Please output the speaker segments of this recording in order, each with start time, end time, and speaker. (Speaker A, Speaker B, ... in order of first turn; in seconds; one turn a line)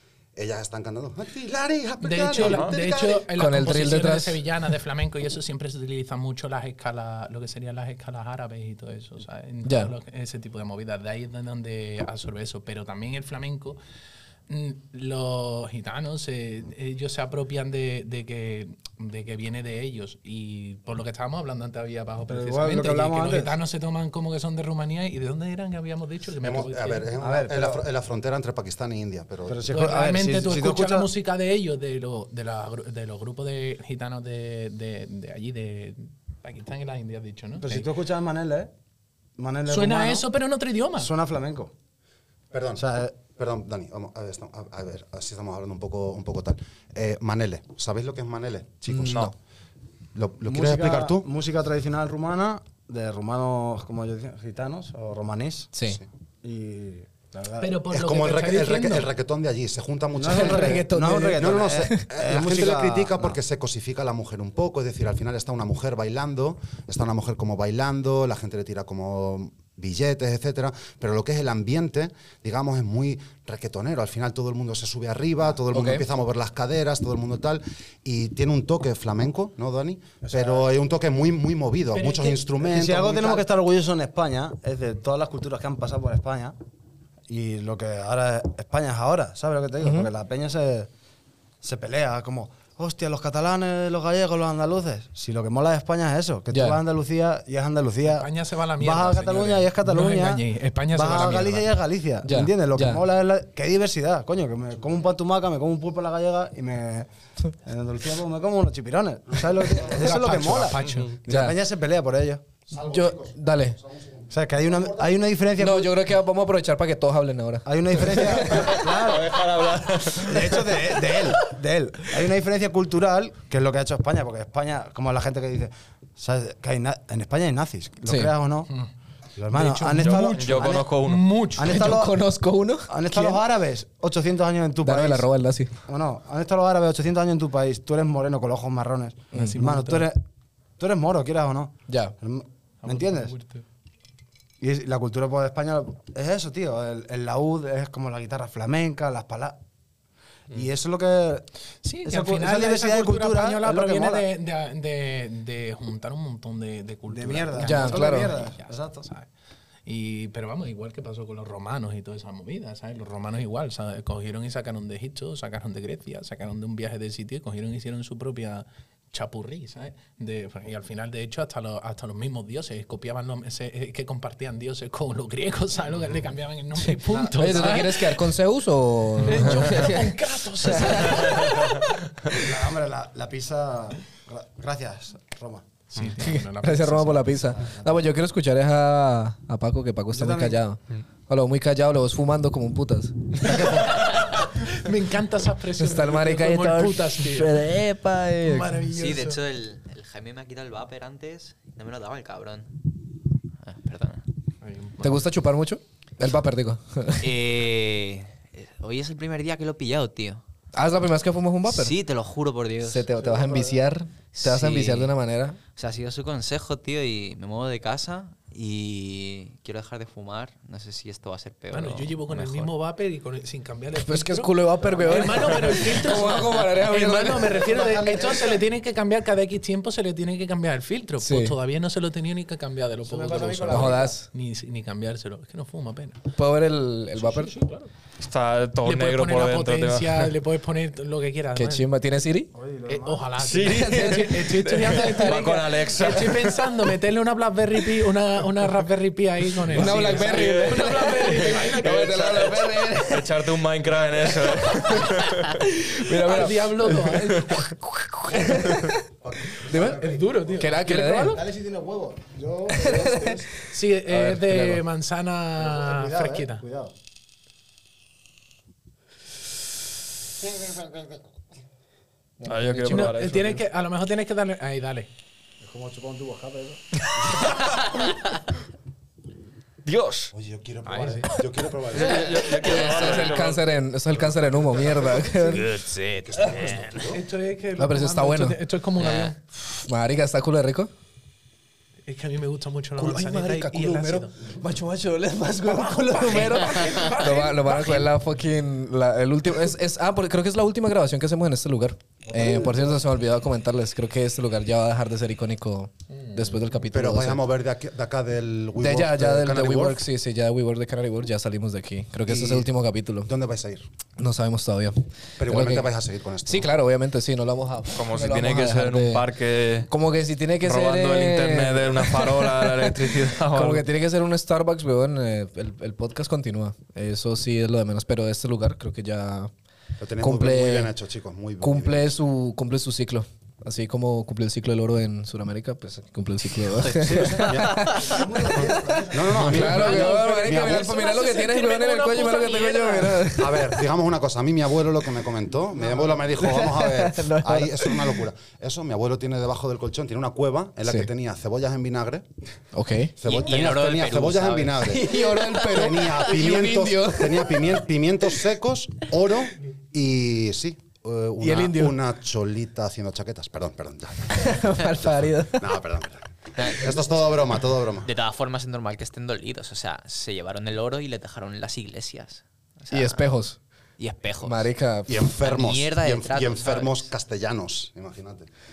Speaker A: 0.4-3.3
Speaker B: 2.0-13.8
Speaker C: 2.4-2.8
Speaker D: 3.3-4.4
Speaker D: 9.6-9.9
Speaker B: 14.5-27.1
Speaker E: 22.3-23.6
Speaker A: 26.4-29.6
Speaker E: 27.2-27.9
Speaker E: 29.5-31.1
Speaker B: 29.7-37.9
Speaker E: 37.6-38.7
Speaker E: 39.4-40.3
Speaker B: 39.7-41.1
Speaker E: 41.0-41.7
Speaker A: 42.5-49.3
Speaker E: 42.8-43.1
Speaker D: 48.9-49.3
Speaker C: 49.0-49.3
Speaker A: 50.1-51.2
Speaker E: 50.4-55.7
Speaker D: 55.7-56.0
Speaker E: 56.4-57.8
Speaker B: 57.6-59.1
Speaker A: 57.9-83.5
Speaker E: 60.2-63.4
Speaker D: 60.2-62.0
Speaker D: 75.7-76.1
Speaker E: 80.2-80.7
Speaker B: 81.9-82.4
Speaker E: 82.6-86.6
Speaker E: 87.3-90.9
Speaker D: 89.8-90.1
Speaker E: 91.6-112.4
Speaker D: 96.5-96.8
Speaker B: 98.1-101.7
Speaker D: 102.2-103.0
Speaker B: 109.9-111.2
Speaker D: 111.3-111.5
Speaker A: 112.7-115.1
Speaker D: 112.7-113.8
Speaker E: 114.3-116.0
Speaker D: 115.6-118.7
Speaker E: 117.7-119.5
Speaker C: 118.9-120.6
Speaker E: 120.1-128.7
Speaker D: 128.1-128.3
Speaker E: 129.4-130.9
Speaker B: 129.5-131.9
Speaker C: 130.0-131.4
Speaker E: 131.5-132.2
Speaker D: 131.6-133.4
Speaker E: 132.9-135.3
Speaker D: 134.8-135.7
Speaker E: 135.9-140.2
Speaker B: 139.3-140.1
Speaker E: 140.8-143.3
Speaker D: 141.9-142.1
Speaker B: 142.8-143.6
Speaker E: 144.6-149.6
Speaker E: 150.5-151.5
Speaker B: 151.8-159.3
Speaker E: 152.1-154.3
Speaker E: 157.1-159.1
Speaker D: 157.6-158.3
Speaker B: 159.8-178.3
Speaker D: 176.9-181.8
Speaker E: 177.1-177.8
Speaker B: 179.2-182.4
Speaker C: 181.2-181.5
Speaker E: 182.3-185.7
Speaker B: 185.9-187.5
Speaker D: 186.2-193.9
Speaker E: 187.6-188.0
Speaker E: 190.1-190.6
Speaker B: 193.7-197.6
Speaker D: 195.8-198.9
Speaker B: 198.4-199.4
Speaker F: 198.9-202.7
Speaker F: 203.6-204.3
Speaker B: 204.6-205.2
Speaker D: 205.0-207.3
Speaker F: 207.2-210.4
Speaker D: 210.7-212.0
Speaker F: 211.7-213.1
Speaker D: 212.8-215.6
Speaker E: 213.2-213.8
Speaker F: 214.3-215.1
Speaker F: 215.8-222.7
Speaker B: 221.7-236.2
Speaker D: 223.9-227.6
Speaker E: 227.5-228.6
Speaker D: 231.2-231.6
Speaker E: 233.1-234.2
Speaker D: 233.7-234.3
Speaker D: 236.4-237.5
Speaker B: 237.2-237.9
Speaker C: 238.2-240.3
Speaker B: 238.8-241.9
Speaker D: 241.6-242.5
Speaker E: 242.5-243.3
Speaker B: 242.9-252.3
Speaker C: 243.4-246.8
Speaker D: 243.7-244.4
Speaker D: 244.9-245.3
Speaker D: 249.7-253.5
Speaker C: 249.7-255.5
Speaker D: 254.3-259.0
Speaker B: 256.2-257.7
Speaker C: 257.3-257.6
Speaker E: 259.5-263.5
Speaker D: 259.6-261.4
Speaker B: 259.7-261.4
Speaker D: 262.7-263.4
Speaker B: 263.6-266.6
Speaker D: 264.1-264.8
Speaker E: 265.6-266.9
Speaker D: 272.4-273.2
Speaker C: 272.4-273.6
Speaker B: 272.9-275.1
Speaker E: 275.6-277.5
Speaker C: 279.8-280.3
Speaker A: 280.3-282.6
Speaker B: 281.0-281.3
Speaker C: 281.9-283.6
Speaker D: 282.1-285.7
Speaker F: 285.5-287.1
Speaker A: 286.2-287.2
Speaker B: 287.1-289.4
Speaker D: 287.8-288.6
Speaker F: 289.0-289.3
Speaker D: 289.8-290.9
Speaker B: 292.1-294.4
Speaker D: 293.0-307.4
Speaker B: 295.8-298.1
Speaker E: 302.3-303.0
Speaker A: 306.9-310.0
Speaker D: 308.8-313.3
Speaker A: 312.3-312.7
Speaker A: 313.2-313.9
Speaker D: 314.2-315.9
Speaker A: 315.4-316.7
Speaker D: 316.4-319.3
Speaker C: 317.9-319.9
Speaker D: 319.9-329.5
Speaker C: 320.6-323.8
Speaker A: 330.0-332.1
Speaker D: 330.2-330.9
Speaker D: 331.6-338.7
Speaker F: 336.8-338.0
Speaker A: 336.9-338.0
Speaker E: 337.9-339.9
Speaker A: 339.1-341.1
Speaker D: 339.3-343.9
Speaker B: 339.7-343.4
Speaker A: 343.3-352.3
Speaker D: 346.2-348.3
Speaker D: 350.8-351.1
Speaker D: 352.7-353.2
Speaker A: 353.2-368.1
Speaker F: 353.2-355.4
Speaker D: 354.8-357.9
Speaker D: 361.4-362.0
Speaker D: 364.3-365.7
Speaker F: 366.6-367.0
Speaker F: 368.0-373.3
Speaker D: 372.9-373.6
Speaker F: 374.0-374.6
Speaker D: 374.4-375.3
Speaker A: 375.1-378.5
Speaker F: 375.4-377.1